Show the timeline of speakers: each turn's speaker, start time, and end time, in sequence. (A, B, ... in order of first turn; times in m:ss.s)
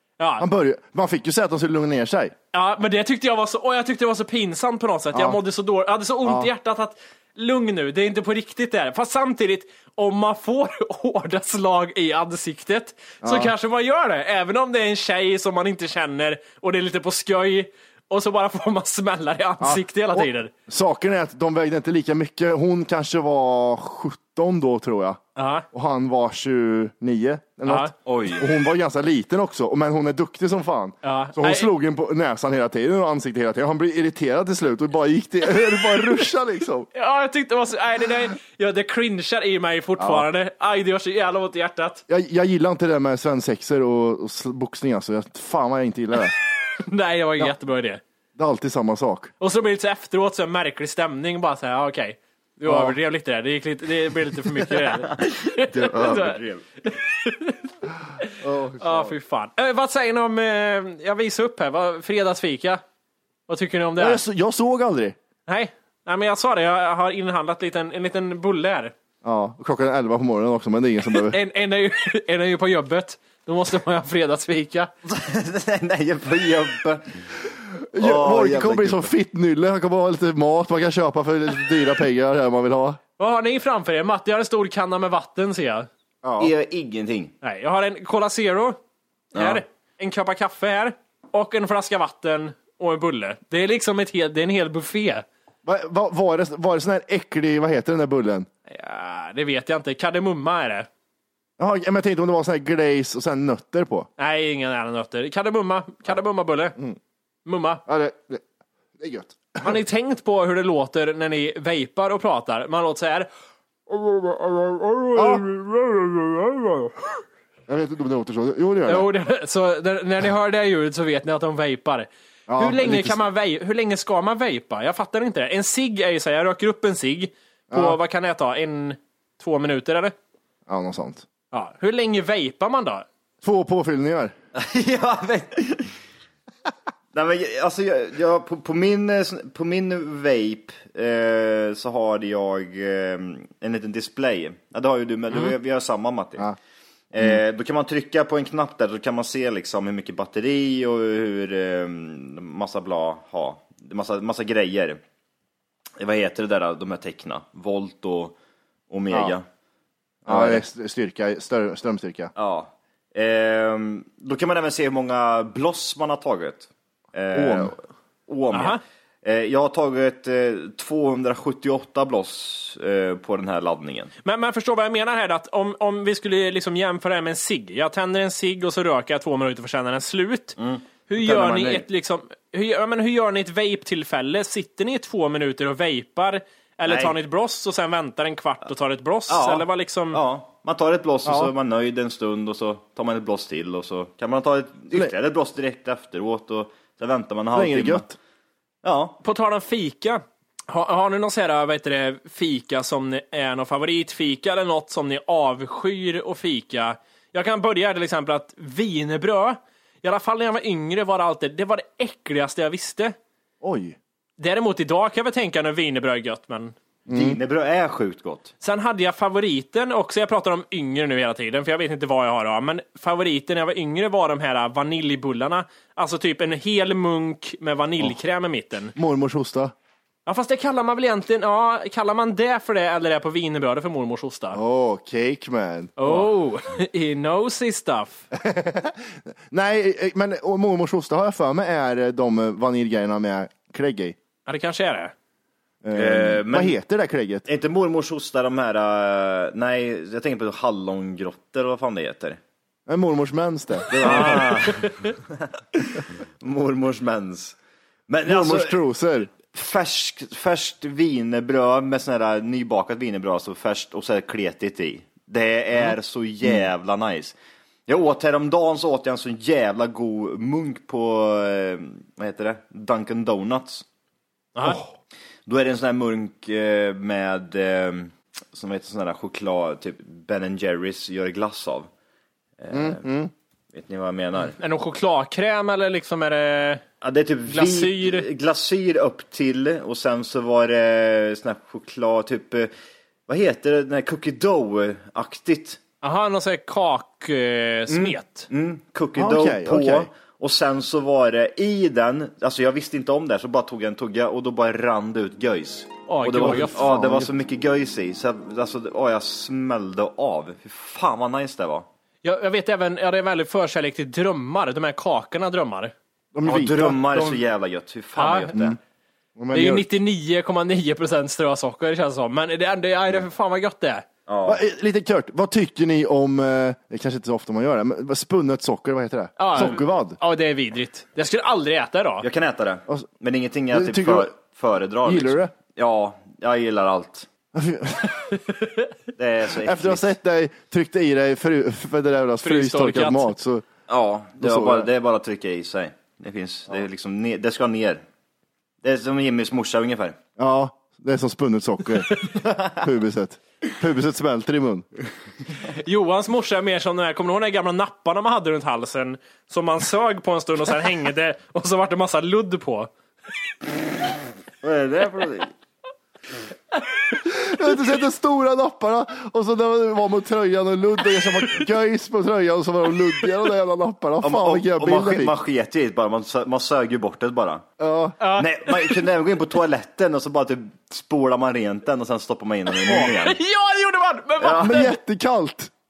0:00.2-0:00.4 A
0:00.4-0:02.3 B
0:02.5-0:20.5 A
0:05.1-0:05.4 B
0:06.2-0:06.5 B
0:13.2-0:13.5 B
0:19.6-0:25.2 B
0:25.4-0:25.7 A
0:25.7-0:36.9 B
0:27.7-0:27.9 A
0:28.1-0:28.4 C
0:31.0-0:31.7 A
0:37.0-0:42.0 A
0:40.0-0:40.3 B
0:42.1-0:46.3 B
0:46.8-0:48.0 A
0:48.4-0:49.3 B
0:49.4-0:57.7 A
0:52.7-0:53.0 B
0:55.0-0:56.6 C
0:58.4-0:59.1 B
0:58.8-1:02.8 A
1:03.5-1:04.2 A
1:04.0-1:05.2 B
1:05.5-1:08.9 A
1:09.2-1:11.4 B
1:11.2-1:14.9 A
1:15.1-1:17.0 C
1:17.9-1:23.0 B
1:18.0-1:19.1 C
1:23.2-1:25.9 A
1:26.2-1:26.5 B
1:26.4-1:27.3 C
1:27.4-1:28.8 A
1:29.3-1:35.2 A
1:29.4-1:29.6 C
1:35.6-1:38.5 B
1:38.7-1:40.9 A
1:41.6-1:44.1 B
1:44.2-1:46.8 A
1:47.5-1:47.8 A
1:47.9-1:48.4 B
1:49.0-1:49.8 B
1:49.6-1:53.3 A
1:53.9-1:57.2 A
1:55.2-1:55.4 B
1:57.7-1:59.1 B
1:58.9-2:10.2 A
2:02.5-2:03.2 B
2:07.7-2:08.0 B
2:10.7-2:11.2 B
2:11.5-2:13.0 A
2:13.4-2:14.3 B
2:14.6-2:15.9 C
2:17.1-2:26.5 C
2:27.1-2:35.0 C
2:36.0-2:38.4 C
2:38.9-2:39.4 C
2:40.3-2:40.6 C
2:40.3-2:42.3 B
2:42.4-2:54.1 C
2:47.3-2:47.7 B
2:48.5-2:48.8 A
2:54.2-3:00.6 A
3:00.6-3:01.8 C
3:01.1-3:10.2 A
3:06.9-3:07.2 C
3:09.3-3:18.1 C
3:11.2-3:11.5 B
3:17.5-3:18.2 B
3:18.8-3:19.2 C
3:19.2-3:33.2 A
3:33.6-3:34.0 B
3:34.4-3:36.7 A
3:37.1-3:37.4 B
3:37.1-3:38.5 C
3:38.6-3:48.9 A
3:49.0-3:49.7 B
3:50.3-3:54.6 A
3:54.5-3:56.3 B
3:56.0-3:58.2 A
3:58.3-4:04.2 B
4:04.5-4:05.1 A
4:05.8-4:07.5 B
4:06.0-4:06.8 C
4:07.5-4:12.4 C
4:12.9-4:14.7 B
4:14.0-4:15.2 C
4:14.1-4:14.4 A
4:15.8-4:17.6 C
4:18.1-4:18.8 C
4:18.3-4:19.3 B
4:19.4-4:27.4 C
4:27.9-4:33.8 C
4:34.6-4:34.8 A
4:34.6-4:34.9 B
4:35.5-4:41.9 C
4:42.6-4:43.0 C
4:42.7-4:43.3 B
4:43.7-4:44.6 C
4:44.6-4:46.8 A
4:47.0-4:52.7 C
4:47.5-4:48.3 A
4:53.3-4:55.8 C
4:56.0-4:58.5 A
4:57.9-5:11.9 C
4:59.2-5:00.1 B
5:06.1-5:06.9 A
5:06.3-5:07.3 B
5:12.2-5:15.9 A
5:16.3-5:17.4 B
5:16.5-5:18.8 C
5:18.2-5:18.6 A
5:19.4-5:19.9 B
5:19.5-5:24.0 A
5:24.3-5:24.6 C
5:24.5-5:30.2 B
5:29.4-5:32.3 A
5:32.2-5:37.3 C
5:33.7-5:34.3 B
5:35.0-5:35.5 B
5:37.5-5:38.3 B
5:39.2-5:40.1 C
5:39.6-5:43.7 B
5:42.4-5:43.3 A
5:43.9-5:48.0 C
5:44.4-5:44.9 B
5:48.8-5:50.2 C
5:50.4-5:54.9 B
5:55.7-6:02.9 A
6:04.6-6:05.5 C
6:07.2-6:15.4 B
6:14.2-6:17.7 C
6:17.8-6:18.2 B
6:18.2-6:19.0 A
6:18.4-6:23.4 C
6:22.7-6:24.9 A
6:24.4-6:24.8 C
6:24.6-6:25.7 B